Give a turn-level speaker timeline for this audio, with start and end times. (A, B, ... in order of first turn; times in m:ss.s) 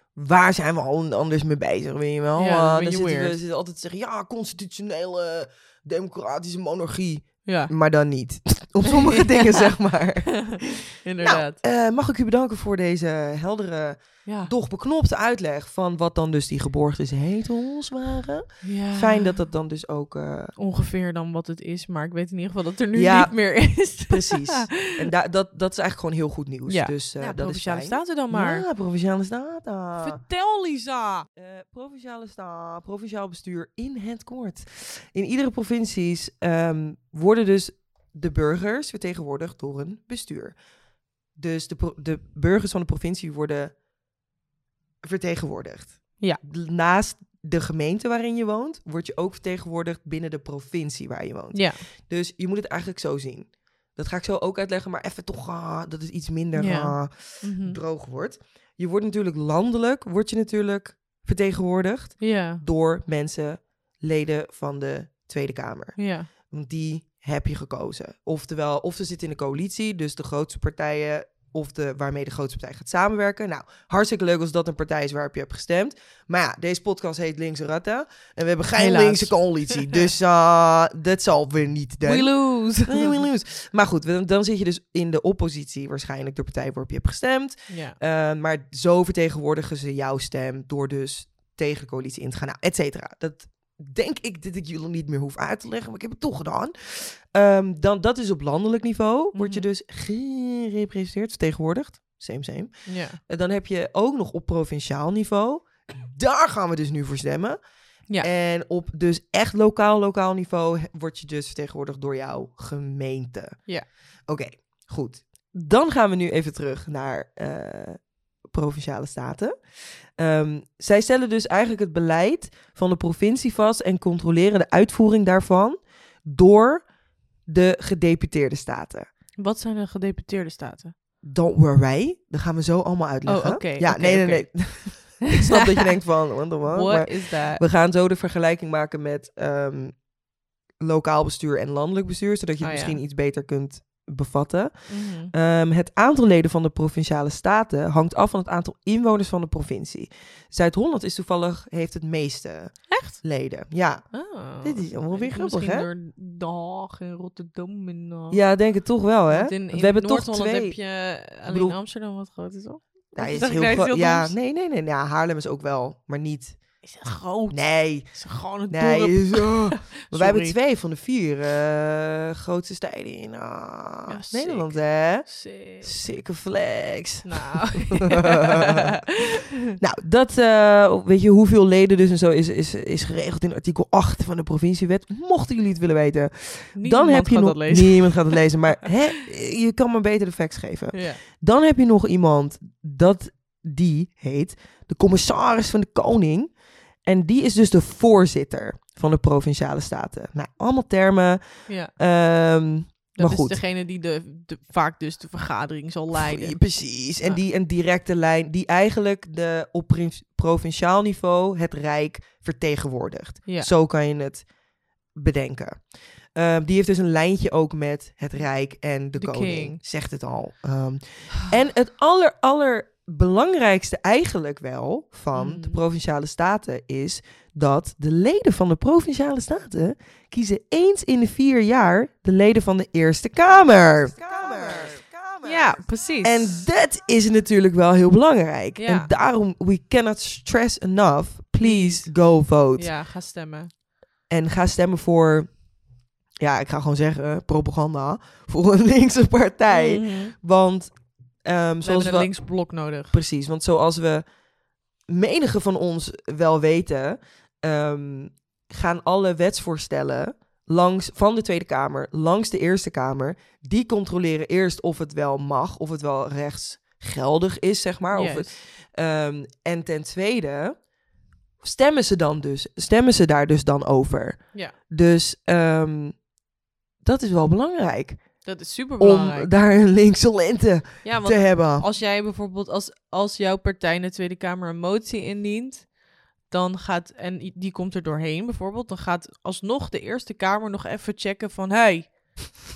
0:00.2-0:20.5 A
0:02.4-0:03.4 B
0:07.4-0:07.7 B
0:08.8-0:09.7 B
0:10.4-0:11.6 B
0:14.2-0:14.5 B
0:18.6-0:19.4 B
0:20.6-0:25.0 B
0:22.9-0:30.2 A
0:26.7-0:28.7 B
0:30.0-0:31.3 B
0:31.4-0:40.6 A
0:41.4-0:43.8 A
0:45.0-1:47.6 A
0:51.5-0:51.8 B
0:56.5-0:57.8 B
1:02.2-1:02.6 B
1:06.0-1:06.3 B
1:18.8-1:19.4 B
1:22.0-1:23.2 B
1:27.7-1:28.0 B
1:39.3-1:39.7 B
1:42.9-1:43.2 B
1:48.2-1:53.6 A
1:54.3-1:59.6 A
2:00.2-2:06.8 A
2:07.5-2:09.1 A
2:09.4-2:11.0 B
2:11.2-2:20.0 A
2:13.3-2:15.6 B
2:16.6-2:17.6 B
2:20.8-2:34.1 A
2:22.6-2:23.0 B
2:24.9-2:25.3 B
2:32.9-2:33.2 B
2:34.1-2:38.4 B
2:34.6-2:35.9 A
2:38.3-2:40.8 A
2:39.3-2:44.3 B
2:41.5-2:41.8 A
2:43.2-2:46.6 A
2:46.8-2:50.6 B
2:47.5-2:58.9 A
2:54.1-2:55.9 B
2:57.2-2:59.4 B
2:59.8-3:16.5 A
3:06.8-3:08.4 B
3:10.9-3:11.2 B
3:17.0-3:21.4 A
3:22.0-3:23.6 A
3:23.2-3:26.6 B
3:26.1-3:34.5 A
3:35.2-4:02.9 A
3:39.2-3:39.8 B
3:45.3-3:45.8 B
3:55.4-3:56.6 B
3:58.8-3:59.1 B
4:01.6-4:02.1 B
4:02.8-4:03.7 B
4:04.3-4:05.5 A
4:06.4-4:12.4 A
4:09.7-4:10.4 B
4:11.8-4:13.2 B
4:13.1-4:14.3 A
4:15.1-4:30.8 A
4:28.1-4:28.5 B
4:31.6-4:36.2 A
4:37.0-4:38.5 A
4:38.4-4:39.5 B
4:39.0-4:41.9 A
4:41.0-4:45.9 B
4:46.5-4:52.4 B